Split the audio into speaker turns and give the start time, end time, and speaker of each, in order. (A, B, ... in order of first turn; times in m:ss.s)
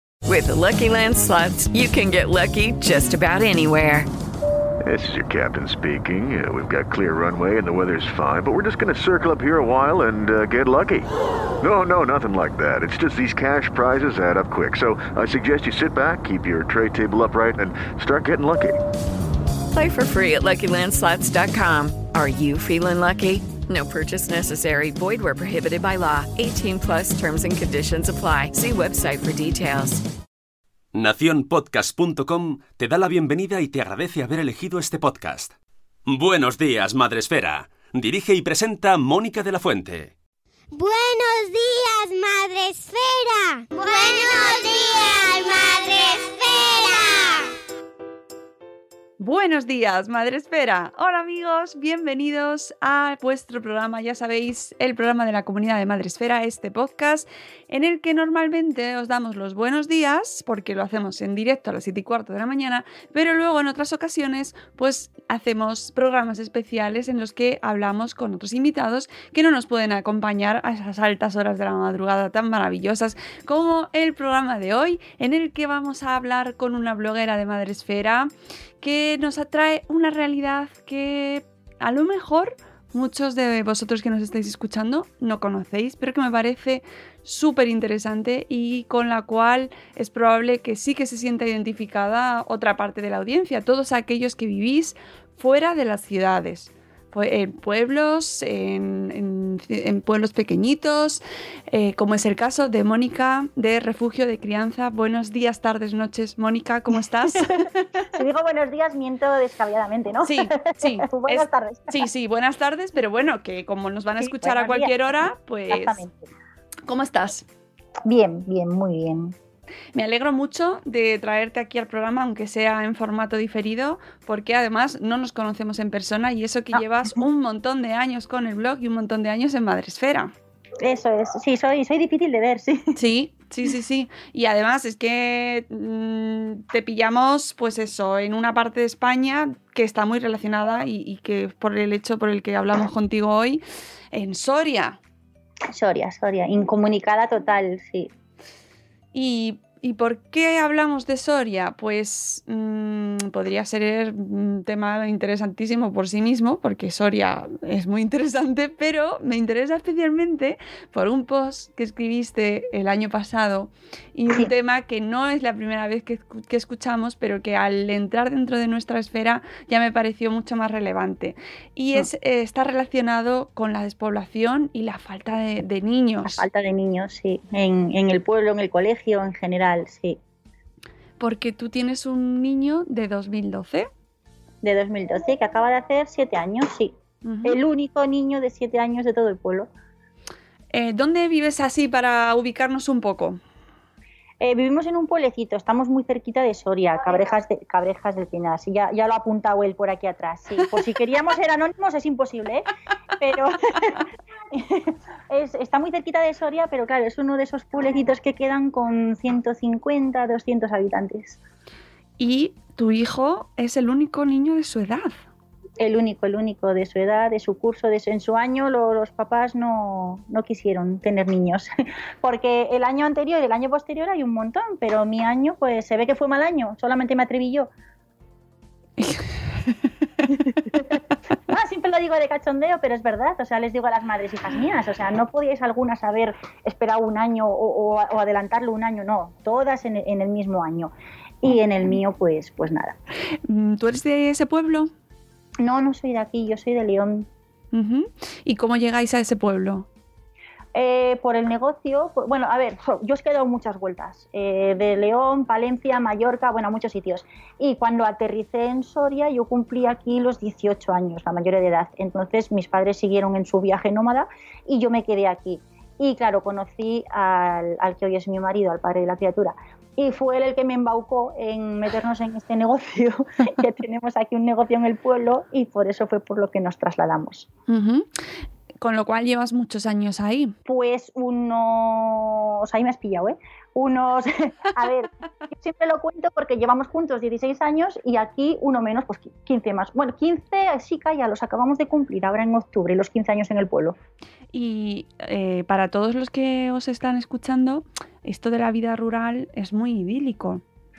0:00.2-0:04.1 A
0:04.9-0:11.1 B
0:11.6-0:18.8 B
0:19.7-0:30.0 A
0:30.9-0:40.1 C
0:40.7-0:47.5 D
0:49.2-1:18.3 E
1:18.8-1:48.1 E
1:47.4-1:47.6 F
1:48.1-1:52.1 F
1:50.2-1:56.0 E
1:54.2-1:55.1 F
1:55.7-1:56.3 F
1:56.9-1:57.4 E
1:58.0-1:59.4 F
1:59.9-2:10.3 E
2:10.8-2:13.0 F
2:13.0-2:25.0 E
2:25.7-2:28.1 F
2:29.1-2:56.5 E
2:56.2-3:00.2 F
3:01.2-3:03.9 E
3:04.6-3:09.7 F
3:07.2-3:07.6 E
3:10.7-3:13.4 E
3:14.4-3:22.7 F
3:23.2-3:31.4 F
3:32.2-3:35.2 E
3:35.8-3:41.7 F
3:42.2-3:47.7 F
3:49.0-3:49.8 E
3:50.2-4:03.0 F
4:03.4-4:04.9 E
4:05.6-4:07.3 F
4:07.7-4:09.9 E
4:10.7-4:37.5 F
4:37.7-4:38.1 E
4:38.8-4:40.6 E
4:40.7-4:54.0 F
4:54.5-5:00.6 E